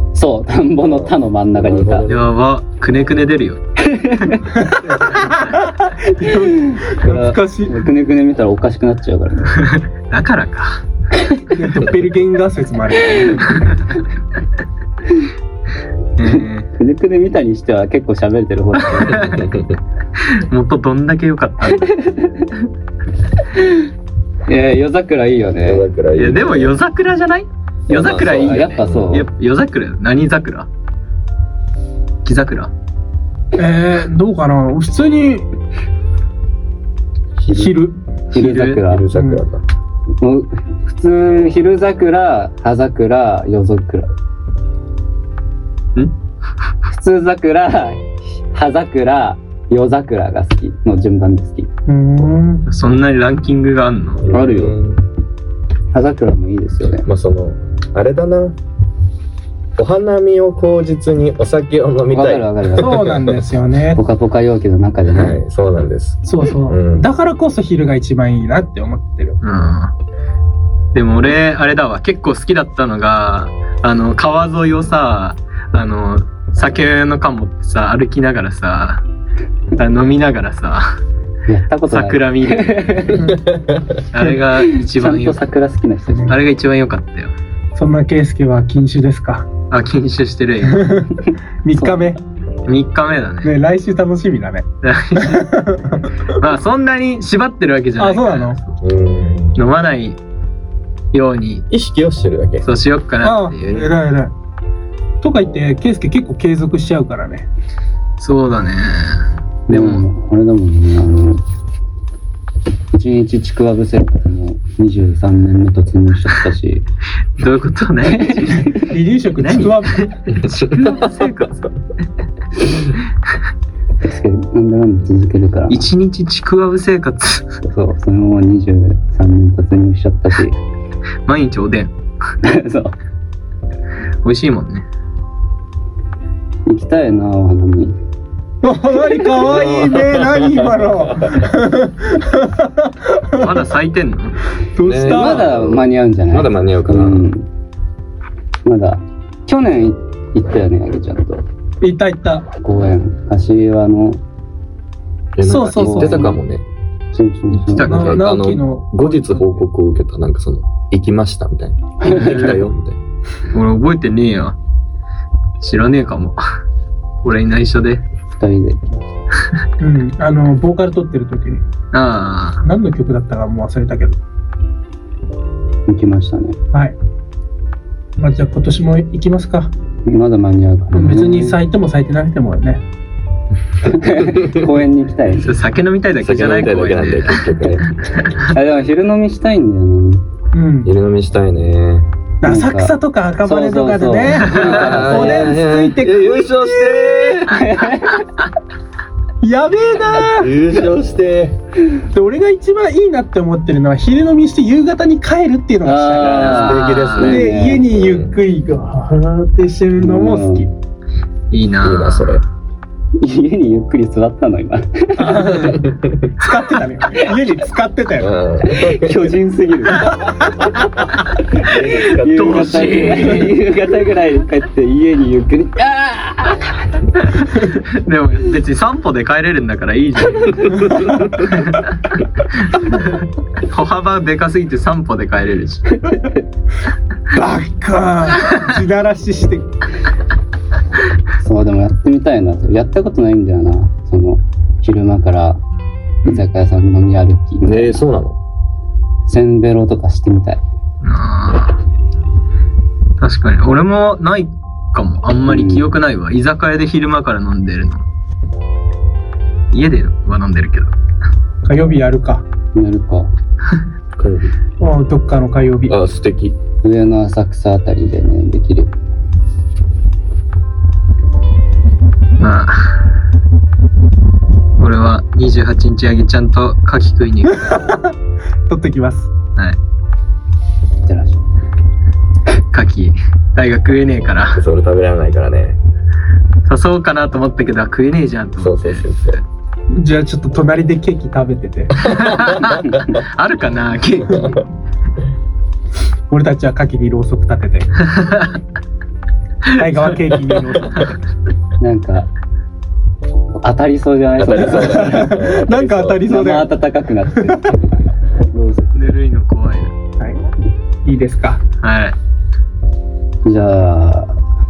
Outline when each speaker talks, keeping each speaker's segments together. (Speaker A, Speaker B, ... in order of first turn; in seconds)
Speaker A: 0.1-2.1, 3.9-4.5, 6.5-9.6, 16.3-19.4, 24.5-25.9, 28.0-29.3, 38.3-39.1, 40.2-44.1, 46.9-51.7, 54.3-54.8, 55.9-57.1, 62.1-63.0, 63.9-65.4, 81.5-83.3, 84.6-86.4, 91.8-92.2, 109.7-111.4, 112.9-116.8, 118.1-118.8, 124.0-125.9, 127.6-130.6, 132.4-132.9, 136.7-138.0, 145.1-147.5, 148.7-151.4, 152.6-154.2, 155.5-156.4, 157.1-158.0, 162.1-162.5, 168.4-169.0, 175.9-176.6, 180.1-181.6, 183.8-185.5, 188.5-190.2, 192.4-195.6, 197.4-198.3, 205.8-207.8, 210.0-210.7, 213.2-215.7, 218.6-220.3, 222.0-226.8, 236.0-236.3, 241.4-245.6, 246.2-248.0, 249.3-250.6, 255.5-255.9, 262.8-263.3, 266.8-268.9, 281.1-281.4, 301.8-302.3, 303.6-305.4, 306.3-307.7, 308.4-309.1, 313.4-314.4
Speaker B: 0.8-2.3, 18.9-19.8, 25.6-26.8, 27.9-29.2, 37.4-37.8, 38.9-39.6, 54.2-55.0, 56.8-58.6, 59.8-63.4, 65.1-67.1, 83.3-83.8, 98.8-99.6, 101.7-102.7, 120.7-121.3, 139.4-140.5, 144.8-147.3, 155.4-156.7, 157.8-163.0, 186.2-187.9, 190.8-192.1, 194.6-197.6, 200.3-201.6, 206.2-208.3, 211.8-212.4, 215.6-216.3, 218.2-219.3, 221.6-223.1, 247.7-248.4, 264.2-264.6, 265.9-266.6, 284.6-285.8, 288.6-289.4, 292.1-293.0, 304.4-306.3
Speaker C: 2.1-3.6, 9.6-10.8, 16.2-16.7, 19.0-19.2, 20.2-22.1, 26.2-30.7, 32.2-32.7, 38.3-38.8, 52.7-54.2, 69.4-69.9, 70.9-79.0, 79.8-80.9, 81.9-83.1, 84.1-85.4, 86.3-87.3, 89.7-90.9, 92.7-93.5, 94.8-95.5, 96.4-98.8, 99.5-100.2, 101.1-101.7, 102.6-103.9, 108.2-110.0, 117.4-121.6, 125.7-127.5, 131.3-131.9, 134.2-134.9, 143.3-144.4, 157.6-158.2, 162.1-162.7, 163.5-164.6, 165.6-166.4, 167.2-168.0, 171.9-172.6, 185.4-188.5, 194.5-194.9, 206.3-207.4, 211.5-212.3, 222.1-223.6, 227.2-236.0, 251.0-251.8, 253.2-258.1, 259.7-260.9, 272.4-273.1, 274.8-277.8, 282.7-284.6, 286.7-289.1, 292.0-294.5, 298.0-298.6, 299.7-300.2, 308.9-309.9, 311.8-312.2
Speaker D: 4.5-7.8, 11.5-13.7, 33.6-35.5, 37.5-38.0, 39.1-39.4, 51.9-52.6, 62.8-64.0, 66.3-69.4, 83.1-83.4, 87.8-89.5, 90.6-91.1, 91.6-92.2, 93.4-96.1, 98.0-98.6, 103.2-104.3, 105.2-107.5, 118.7-120.1, 138.6-143.6, 144.7-145.5, 151.8-152.5, 155.4-156.3, 157.9-159.6, 169.8-171.7, 172.6-174.2, 178.2-179.7, 180.9-182.8, 190.5-190.9, 192.4-196.9, 199.4-200.5, 202.1-206.6, 207.2-210.7, 215.2-215.9, 216.4-218.3, 219.9-220.7, 230.9-231.4, 237.3-239.7, 261.6-262.4, 264.8-266.0, 277.5-278.1, 278.7-279.3, 289.9-291.9, 294.3-294.6, 296.3-297.9, 299.8-301.1, 304.6-306.7, 311.1-311.6